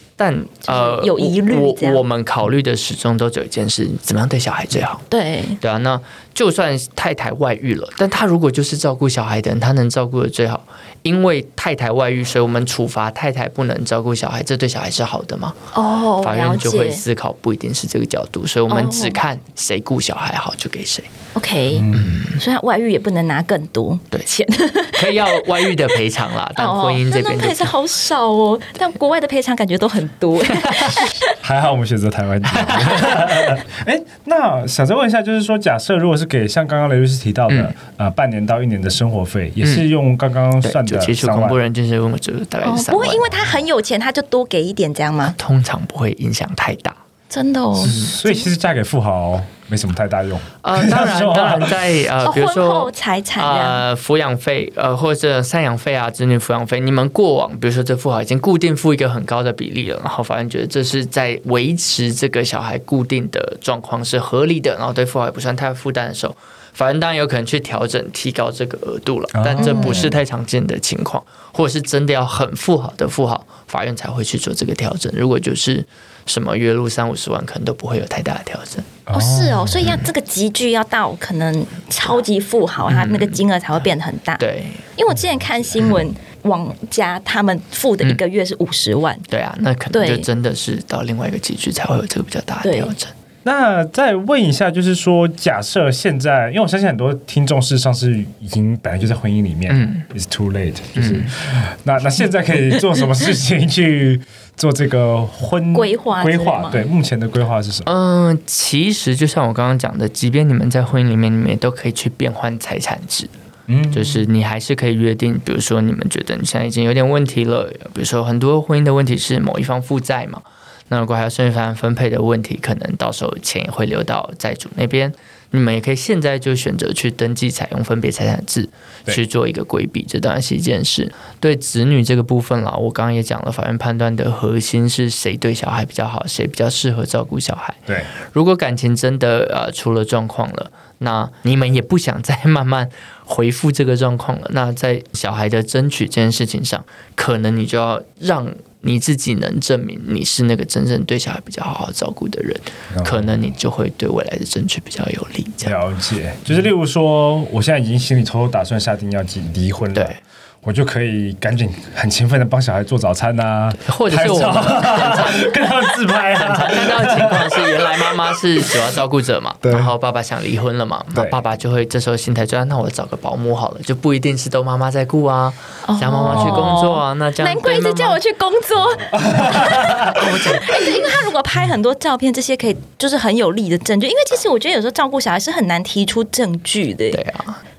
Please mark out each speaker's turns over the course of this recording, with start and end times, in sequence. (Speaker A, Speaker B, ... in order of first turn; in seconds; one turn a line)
Speaker A: 0.2-5.0
Speaker B: 0.6-2.0
Speaker B: 5.1-5.6
Speaker A: 5.6-15.6
Speaker B: 15.7-17.0
Speaker A: 16.2-21.1
Speaker B: 18.7-19.2
Speaker B: 21.3-25.8
Speaker C: 21.7-22.2
Speaker A: 21.9-22.4
Speaker A: 24.9-27.7
Speaker B: 26.6-31.3
Speaker A: 30.5-30.9
Speaker C: 31.3-41.6
Speaker A: 32.5-33.0
Speaker B: 33.0-33.5
Speaker A: 37.5-37.7
Speaker A: 40.6-43.3
Speaker B: 42.6-45.4
Speaker A: 45.4-47.0
Speaker B: 47.3-48.5
Speaker C: 47.8-51.8
Speaker A: 50.6-79.0
Speaker B: 52.2-53.8
Speaker C: 69.3-70.1
Speaker B: 69.6-70.1
Speaker C: 79.1-79.8
Speaker B: 79.1-84.4
Speaker A: 82.9-83.4
Speaker A: 84.4-84.8
Speaker B: 85.0-89.2
Speaker A: 89.3-93.1
Speaker B: 89.9-90.3
Speaker B: 92.6-92.9
Speaker C: 93.4-107.9
Speaker A: 99.7-100.0
Speaker A: 101.0-101.3
Speaker B: 105.7-106.8
Speaker A: 107.8-113.3
Speaker C: 113.7-114.2
Speaker A: 113.9-155.8
Speaker C: 152.9-153.3
Speaker C: 155.7-160.1
Speaker C: 160.6-168.7
Speaker A: 163.8-165.5
Speaker A: 166.3-178.2
Speaker C: 169.6-169.9
Speaker C: 171.1-171.4
Speaker B: 175.8-187.2
Speaker C: 176.3-176.6
Speaker C: 179.1-180.5
Speaker A: 187.1-187.6